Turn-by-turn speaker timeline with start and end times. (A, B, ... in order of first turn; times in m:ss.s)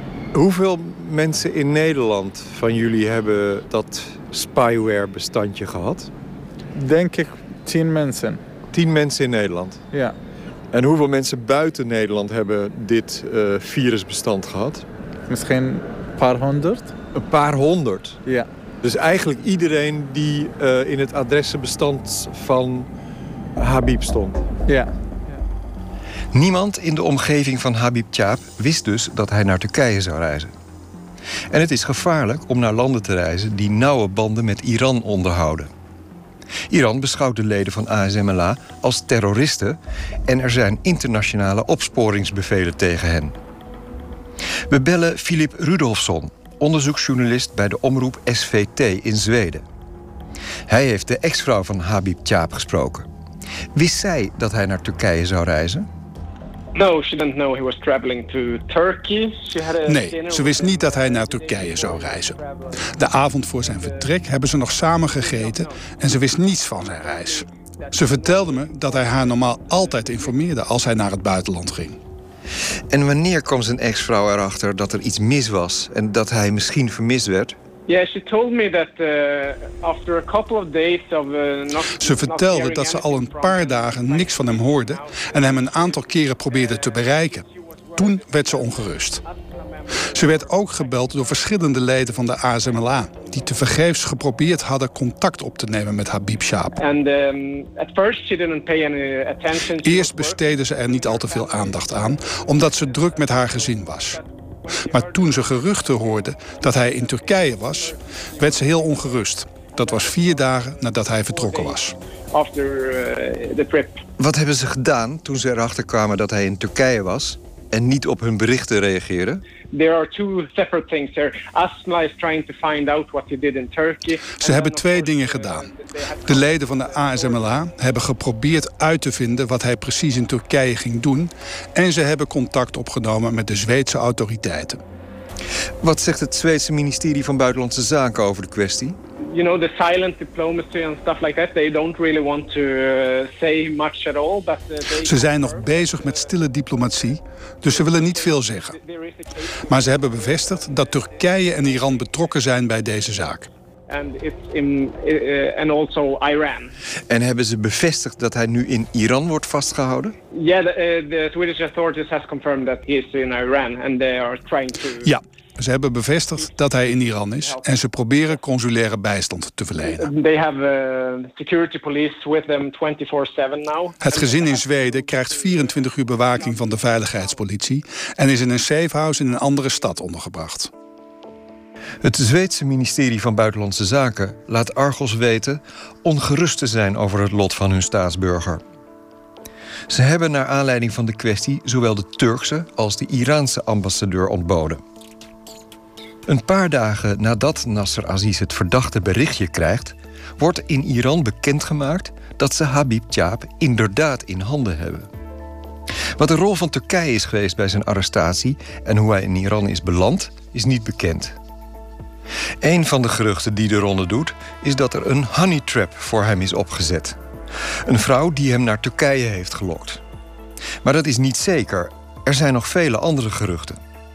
0:00.3-0:06.1 A
0:06.7-0:08.4 B
0:08.7-0:09.8 A
0:10.7-0:14.8 A
0:15.3-0:16.9 B
0:17.1-0:18.2 A
0:18.8-0:22.9 A
0:23.6-0:24.4 A
0:26.3-0:30.5 A
0:31.5-0:35.7 A
0:36.7-0:43.4 A
0:44.7-0:49.6 A
0:50.7-0:53.1 A
0:53.7-0:55.9 A
0:56.8-1:10.4 C
0:59.8-1:02.4 D
1:02.9-1:12.0 D
1:12.9-1:17.6 A
1:17.9-1:34.0 C
1:22.0-1:27.4 D
1:28.0-1:29.2 D
1:30.1-1:36.7 D
1:36.7-1:54.0 C
1:39.8-1:44.2 D
1:44.9-1:51.9 D
1:54.2-1:59.4 A
1:59.7-2:07.7 C
2:04.3-2:05.7 D
2:06.2-2:14.8 D
2:15.8-2:19.0 A
2:19.3-2:32.3 C
2:25.0-2:28.8 D
2:29.7-2:33.5 D
2:33.9-2:36.7 C
2:37.1-2:40.2 A
2:40.3-2:45.2 C
2:45.0-2:50.1 D
2:46.3-2:48.4 C
2:49.8-2:57.5 C
2:54.0-3:00.7 D
3:02.0-3:08.6 A
3:09.9-3:14.8 A
3:16.2-3:25.1 A
3:26.2-3:31.4 A
3:32.6-3:37.2 A
3:37.8-3:40.0 A
3:40.8-3:43.8 A